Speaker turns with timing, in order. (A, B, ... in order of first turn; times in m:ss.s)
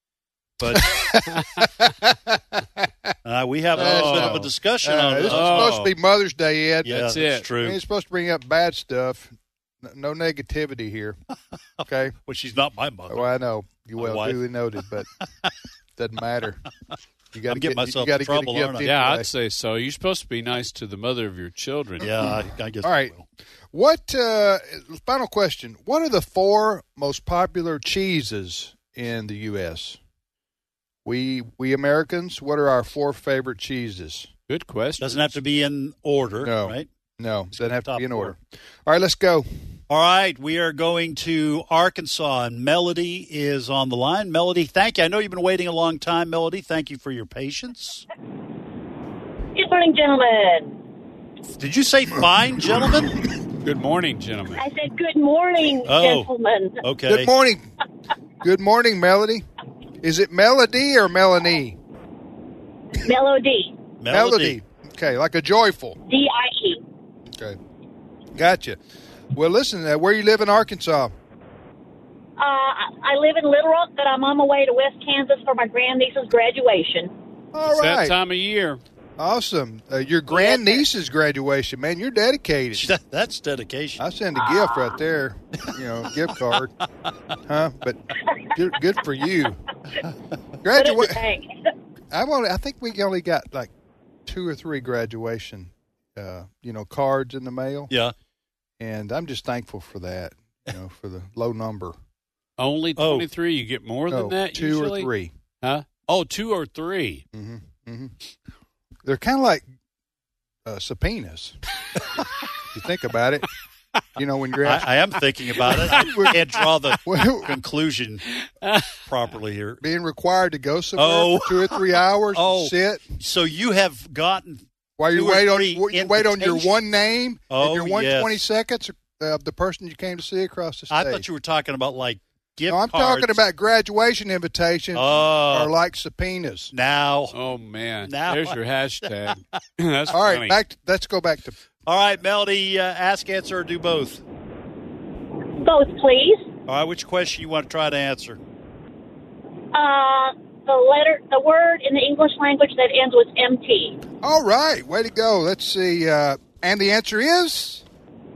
0:00.6-0:01.2 A
0:00.7-0:02.9 B
0:03.2-0:05.9 A
0:03.7-0:04.5 C
0:03.7-0:11.2 B
0:05.2-0:05.9 C
0:06.8-0:07.8 A
0:07.0-0:07.5 C
0:11.8-0:13.3 A
0:11.8-0:12.2 B
0:13.1-0:15.1 B
0:14.0-0:14.4 A
0:16.0-0:16.6 B
0:17.3-0:19.3 B
0:17.5-0:18.8 A
0:18.8-0:22.1 C
0:22.0-0:23.2 A
0:22.8-0:23.1 B
0:23.7-0:30.0 B
0:31.0-0:34.3 B
0:34.5-0:35.4 C
0:35.0-0:36.9 A
0:36.4-0:39.5 B
0:37.6-0:38.4 A
0:39.9-0:48.0 A
0:49.6-0:50.8 D
0:51.5-0:53.2 A
0:53.6-0:54.6 C
0:54.6-0:56.8 D
0:55.8-0:56.3 A
0:56.8-0:57.3 A
0:57.1-0:57.7 B
0:58.4-0:59.4 B
1:00.0-1:01.8 B
1:03.0-1:03.8 D
1:04.0-1:04.6 A
1:04.1-1:06.0 B
1:06.1-1:06.8 D
1:08.3-1:08.8 B
1:09.3-1:11.1 B
1:12.4-1:17.1 D
1:17.5-1:18.2 B
1:17.7-1:18.8 C
1:19.2-1:22.9 B
1:20.3-1:20.8 D
1:22.8-1:24.0 A
1:24.0-1:26.7 B
1:24.4-1:24.9 D
1:27.5-1:28.0 B
1:28.5-1:29.6 B
1:30.6-1:31.2 B
1:30.7-1:31.7 D
1:32.1-1:33.7 B
1:34.3-1:37.9 B
1:38.8-1:42.0 B
1:42.6-1:45.1 C
1:43.0-1:43.3 A
1:44.1-1:45.3 B
1:45.6-1:47.2 C
1:47.3-1:48.1 B
1:49.0-1:49.6 B
1:50.6-1:51.6 B
1:52.7-1:53.5 B
1:54.2-1:54.9 B
1:54.6-1:58.3 A
1:55.8-1:56.5 B
1:57.0-1:57.6 B
1:58.6-1:59.0 C
1:59.0-1:59.8 A
1:59.8-2:03.1 B
2:01.0-2:01.8 A
2:02.3-2:06.7 A
2:05.0-2:11.2 B
2:07.5-2:08.4 A
2:10.9-2:13.4 A
2:12.7-2:16.7 B
2:15.0-2:15.7 A
2:16.7-2:17.4 A
2:17.3-2:20.6 C
2:18.1-2:19.1 A
2:20.1-2:21.6 B
2:21.9-2:24.2 A
2:25.6-2:26.5 D
2:26.7-2:28.4 A
2:29.7-2:34.0 D
2:34.2-2:37.8 B